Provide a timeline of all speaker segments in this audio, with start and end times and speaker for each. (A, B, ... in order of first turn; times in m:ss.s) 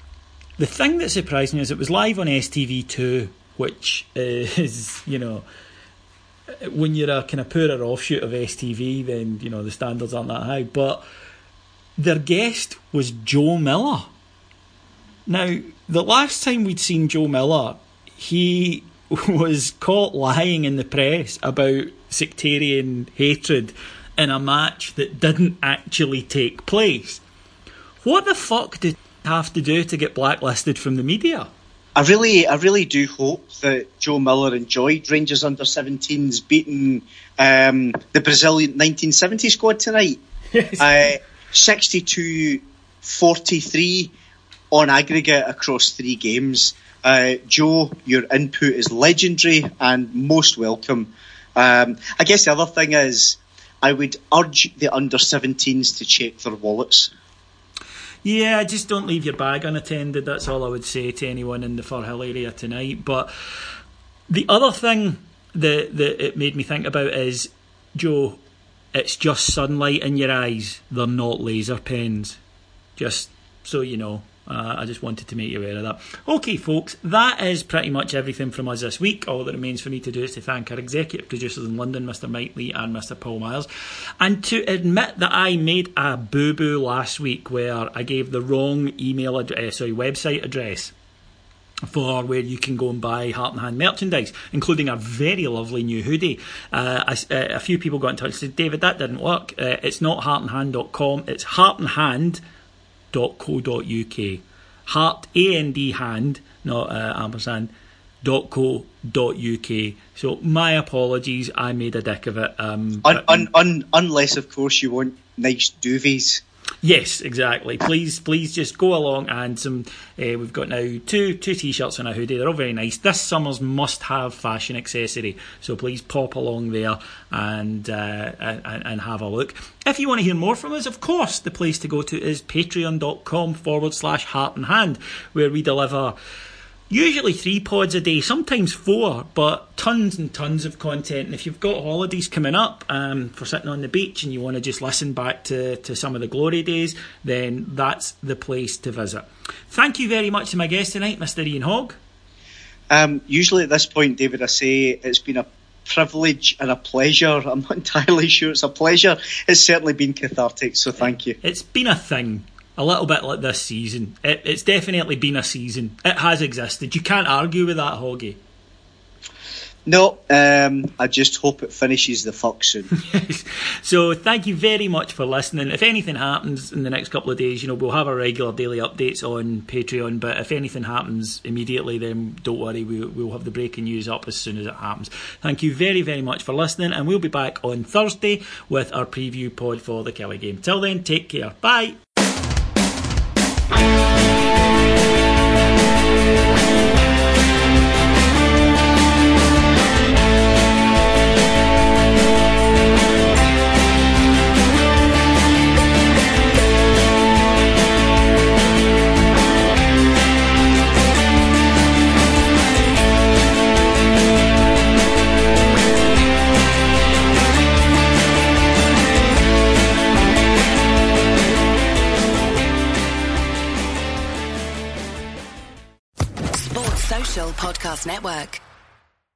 0:00.6-0:05.4 A
0:06.6-0:11.0 A
0:12.0-0:14.1 A
0:15.3-0:27.2 A
0:28.0-0:31.5 A
0:32.0-0:40.2 B
0:40.6-0:40.8 A
0:40.8-0:44.1 B
0:44.7-0:57.1 B
0:58.2-1:03.3 A
1:04.3-1:08.4 A
1:08.9-1:12.4 A
1:13.0-1:23.7 A
1:24.2-1:30.9 A
1:31.9-1:42.4 A
1:43.1-1:47.7 A
1:48.2-1:53.5 A
1:53.0-1:56.4 B
1:56.8-2:16.2 A
2:16.9-2:32.0 A
2:32.9-2:41.4 B
2:41.0-2:48.4 A
2:49.9-2:52.9 B
2:52.9-3:12.0 A
3:46.5-3:48.6 C